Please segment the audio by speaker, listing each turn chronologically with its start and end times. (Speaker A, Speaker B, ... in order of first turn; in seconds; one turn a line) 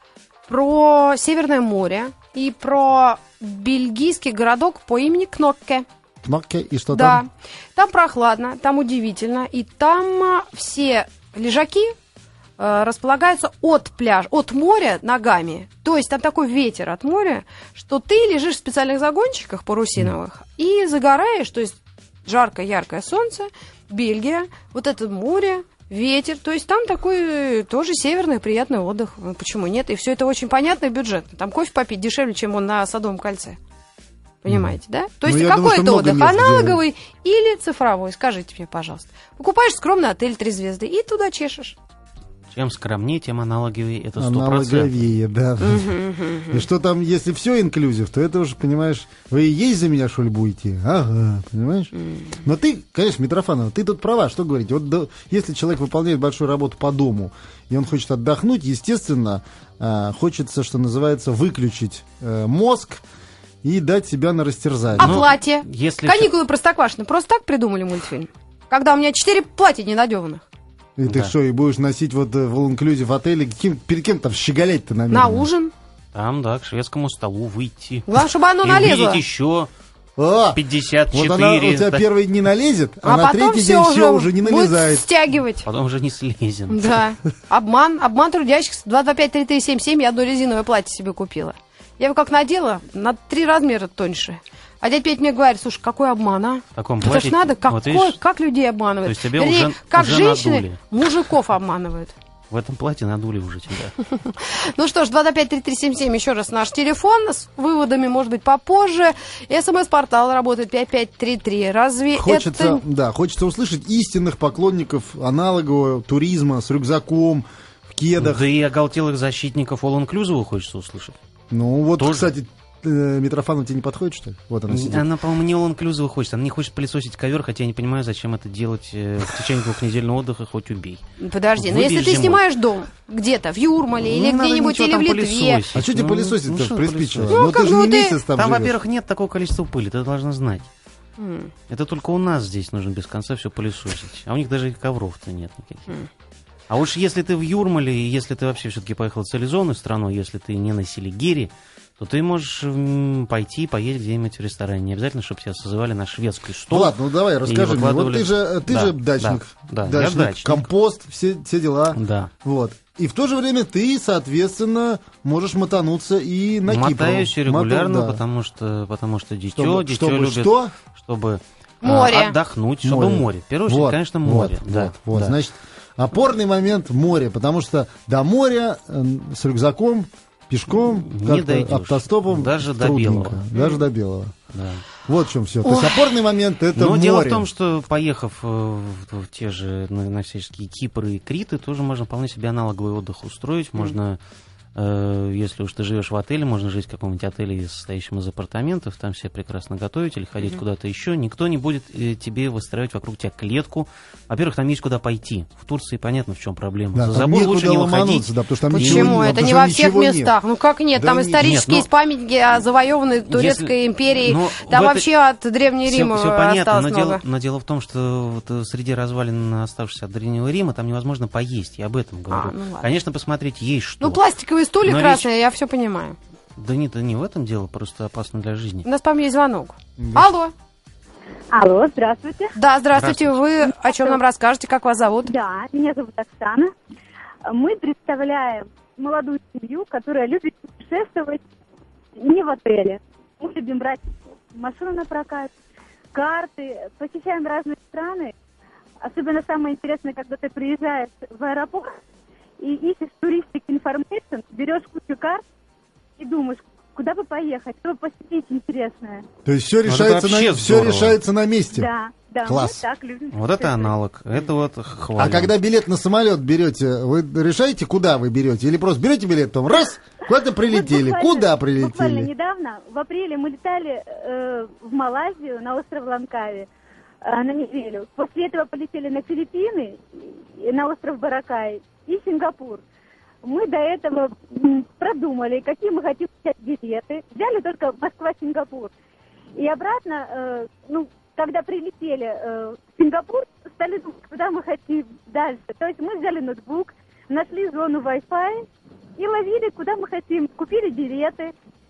Speaker A: 0.5-5.9
Speaker B: 6.2-7.2
Speaker A: 6.9-11.9
Speaker A: 12.6-33.6
Speaker A: 34.4-41.8
Speaker B: 34.5-36.8
Speaker C: 42.5-45.0
Speaker B: 44.2-46.0
Speaker A: 45.6-46.6
Speaker B: 46.5-63.0
Speaker A: 52.0-52.4
Speaker B: 63.6-65.2
Speaker C: 65.0-66.3
Speaker A: 65.0-70.5
Speaker B: 71.0-75.5
Speaker C: 71.0-71.3
Speaker A: 75.1-75.7
Speaker C: 76.1-79.7
Speaker A: 78.1-79.2
Speaker B: 80.2-85.1
Speaker C: 80.5-82.1
Speaker A: 83.0-85.7
Speaker C: 85.6-87.0
Speaker A: 86.7-102.1
Speaker C: 96.8-98.2
Speaker C: 99.0-100.8
Speaker C: 102.5-104.0
Speaker A: 104.2-112.8
Speaker B: 112.2-118.4
Speaker C: 118.2-121.2
Speaker B: 121.5-125.0
Speaker C: 122.0-122.3
Speaker C: 124.7-131.0
Speaker A: 131.2-135.6
Speaker C: 131.6-132.4
Speaker C: 134.0-137.4
Speaker B: 135.7-138.8
Speaker A: 137.3-138.2
Speaker C: 138.3-140.7
Speaker A: 141.2-141.5
Speaker C: 141.7-145.9
Speaker C: 146.7-160.7
Speaker B: 156.7-168.2
Speaker C: 161.9-162.3
Speaker C: 166.7-175.4
Speaker B: 169.6-170.7
Speaker A: 171.8-172.4
Speaker B: 172.8-184.3
Speaker C: 180.8-183.4
Speaker A: 183.6-183.8
Speaker C: 184.5-184.8
Speaker B: 185.1-187.5
Speaker A: 185.7-186.0
Speaker C: 186.8-194.2
Speaker C: 194.8-209.2
Speaker B: 206.9-210.4
Speaker A: 208.7-217.2
Speaker B: 210.9-211.5
Speaker C: 211.4-211.9
Speaker C: 213.3-215.1
Speaker C: 215.8-224.2
Speaker A: 222.3-222.9
Speaker A: 224.0-226.2
Speaker C: 224.8-225.3
Speaker C: 226.6-228.9
Speaker A: 228.8-230.5
Speaker B: 230.0-230.3
Speaker D: 231.5-232.5
Speaker A: 232.6-235.3
Speaker C: 232.9-233.4
Speaker D: 233.7-234.2
Speaker D: 235.2-236.7
Speaker D: 237.5-241.4
Speaker D: 242.2-244.0
Speaker D: 244.5-245.5
Speaker D: 246.1-248.3
Speaker D: 249.0-252.0
Speaker D: 252.6-255.4
Speaker D: 256.2-259.2
Speaker B: 259.4-261.9
Speaker C: 259.9-261.2
Speaker D: 261.7-263.9
Speaker B: 262.5-262.8
Speaker C: 263.3-265.5
Speaker B: 265.2-272.3
Speaker D: 270.7-276.7
Speaker D: 277.2-280.0
Speaker D: 280.6-282.8
Speaker D: 283.4-288.9
Speaker D: 289.6-298.6
Speaker D: 299.2-301.5